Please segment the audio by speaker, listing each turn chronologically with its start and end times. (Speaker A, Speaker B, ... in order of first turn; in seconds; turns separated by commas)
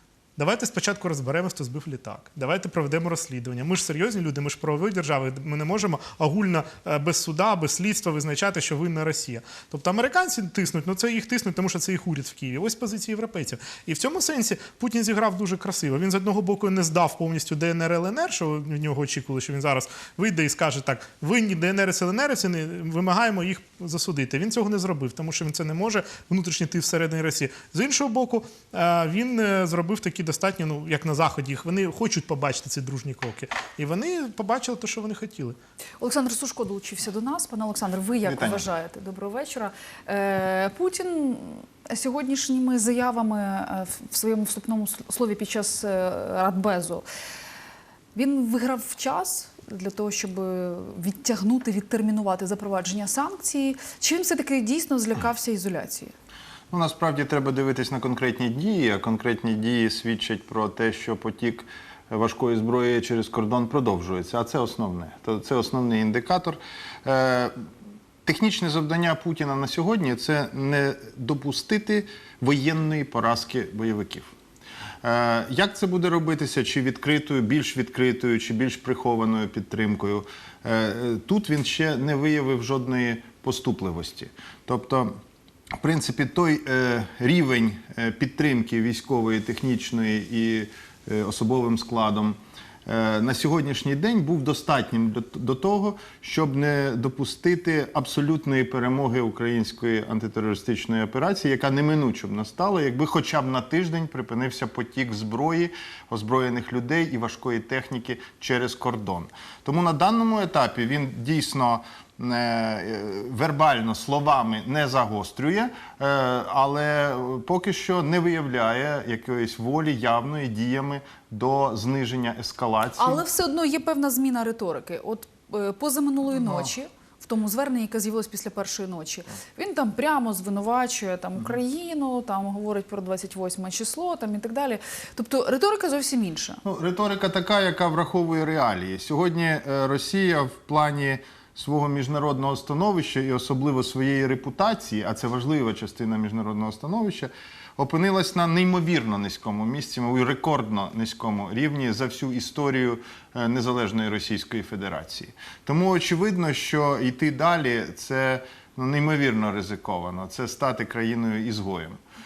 Speaker A: 0.4-35.6, Speaker B: 36.0-47.0, Speaker C: 38.2-38.7, Speaker B: 48.1-56.1, Speaker C: 56.7-67.5, Speaker C: 68.2-74.3, Speaker C: 75.0-85.2, Speaker C: 85.8-123.2, Speaker B: 123.0-136.6, Speaker C: 126.3-126.7, Speaker C: 136.6-162.0